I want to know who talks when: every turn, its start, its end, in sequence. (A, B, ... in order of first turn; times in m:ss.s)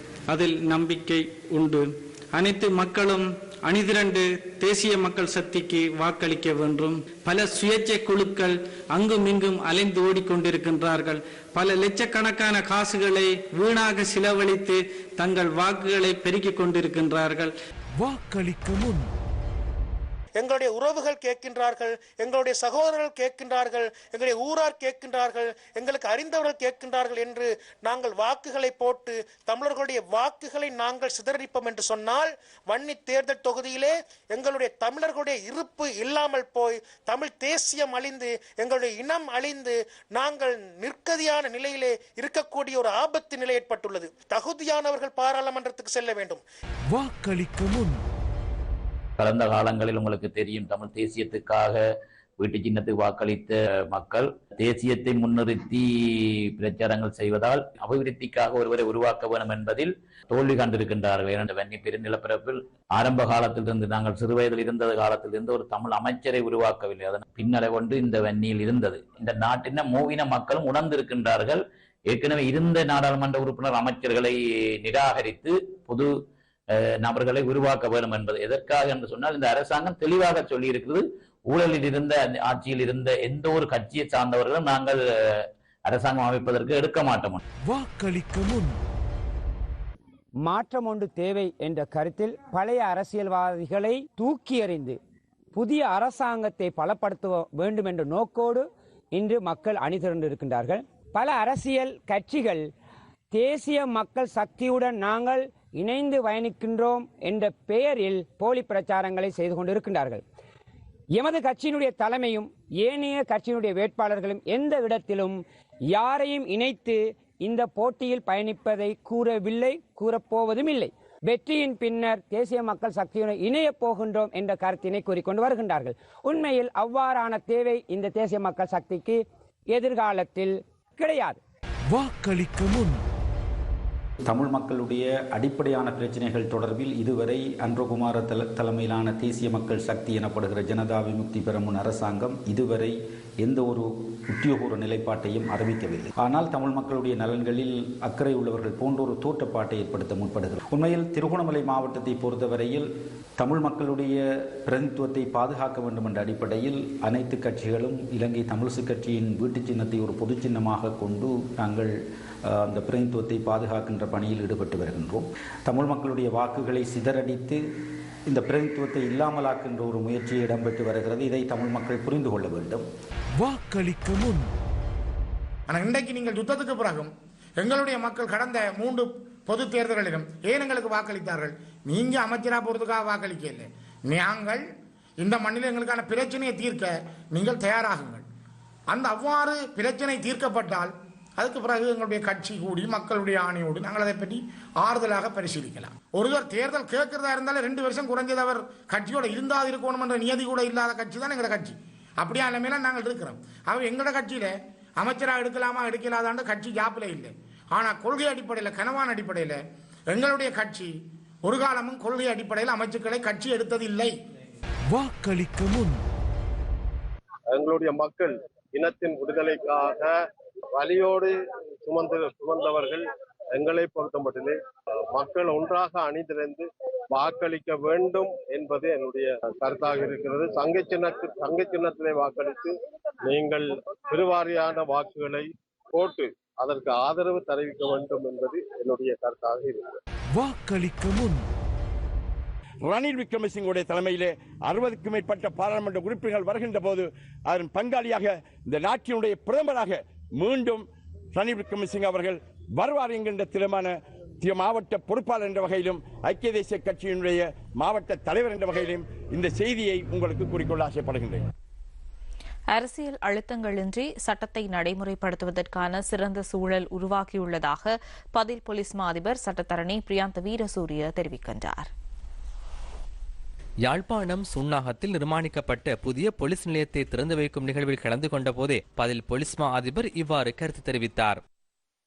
0:00.3-0:17.5 A
0:20.4-0:46.4 B
0:47.0-0:47.4 B
0:49.2-0:51.8 C
0:52.4-1:16.1 C
1:16.8-1:25.0 C
1:25.9-1:27.4 C
1:27.8-1:28.6 B
1:30.4-1:35.0 D
1:35.5-1:42.7 D
1:43.3-1:50.2 D
1:51.2-2:11.4 D
2:12.0-2:12.8 B
2:14.2-2:41.9 E
2:42.4-2:47.6 E
2:48.3-2:52.8 E
2:55.7-3:04.6 F
3:05.2-3:08.2 F
3:08.9-3:29.6 F
3:30.1-3:30.9 F
3:31.4-3:34.1 F
3:37.5-3:40.2 G
3:40.7-3:44.6 G
3:45.1-3:52.7 G
3:53.2-4:00.0 G
4:02.8-4:21.4 H
4:22.7-4:31.9 I
4:33.8-4:41.4 J